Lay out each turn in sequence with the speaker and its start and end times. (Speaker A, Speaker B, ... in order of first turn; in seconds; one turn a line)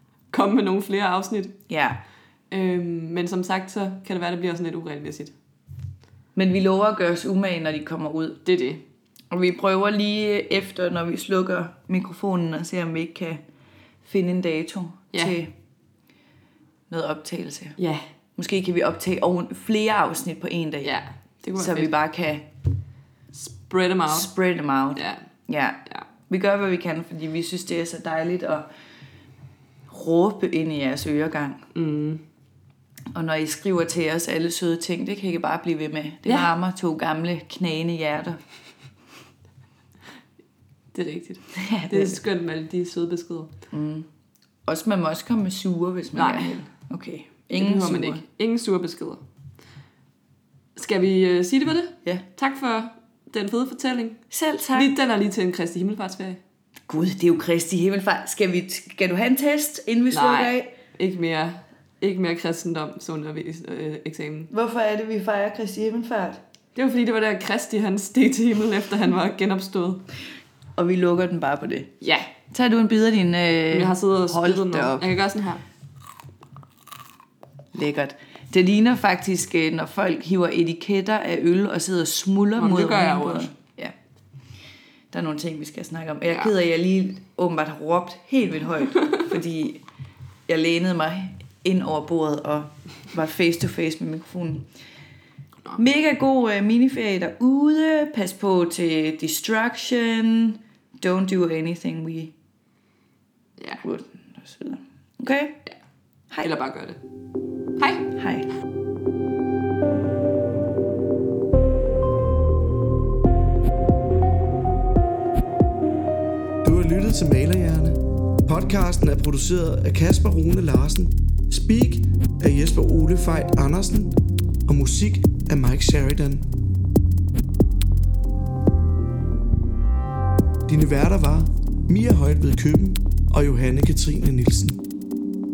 Speaker A: 0.3-1.6
Speaker B: 1.7-2.0
Speaker A: 2.5-5.3
Speaker B: 6.3-8.4
Speaker A: 8.4-8.8
Speaker B: 9.3-13.4
Speaker B: 14.0-15.5
Speaker B: 16.9-17.8
Speaker A: 17.8-18.1
Speaker B: 18.4-20.9
Speaker A: 20.8-21.9
Speaker B: 21.6-22.5
Speaker A: 23.3-24.3
Speaker B: 24.1-28.7
Speaker A: 24.9-25.2
Speaker B: 29.9-31.7
Speaker A: 31.7-32.2
Speaker B: 33.1-38.4
Speaker A: 40.9-43.5
Speaker B: 41.5-42.2
Speaker B: 43.7-44.1
Speaker B: 44.7-48.2
Speaker A: 46.1-46.6
Speaker A: 47.5-49.2
Speaker A: 50.8-54.2
Speaker B: 54.3-54.9
Speaker A: 54.7-56.4
Speaker B: 56.9-60.7
Speaker A: 60.1-64.5
Speaker B: 64.5-66.4
Speaker A: 66.8-70.0
Speaker B: 70.8-72.0
Speaker A: 72.0-72.3
Speaker B: 72.5-75.1
Speaker A: 73.7-75.6
Speaker B: 77.7-83.9
Speaker A: 82.6-83.8
Speaker B: 85.1-89.8
Speaker B: 90.5-94.7
Speaker B: 95.8-102.3
Speaker B: 103.8-105.6
Speaker A: 106.4-107.0
Speaker A: 107.8-108.1
Speaker B: 108.2-108.5
Speaker C: 116.6-126.5
Speaker C: 130.7-134.8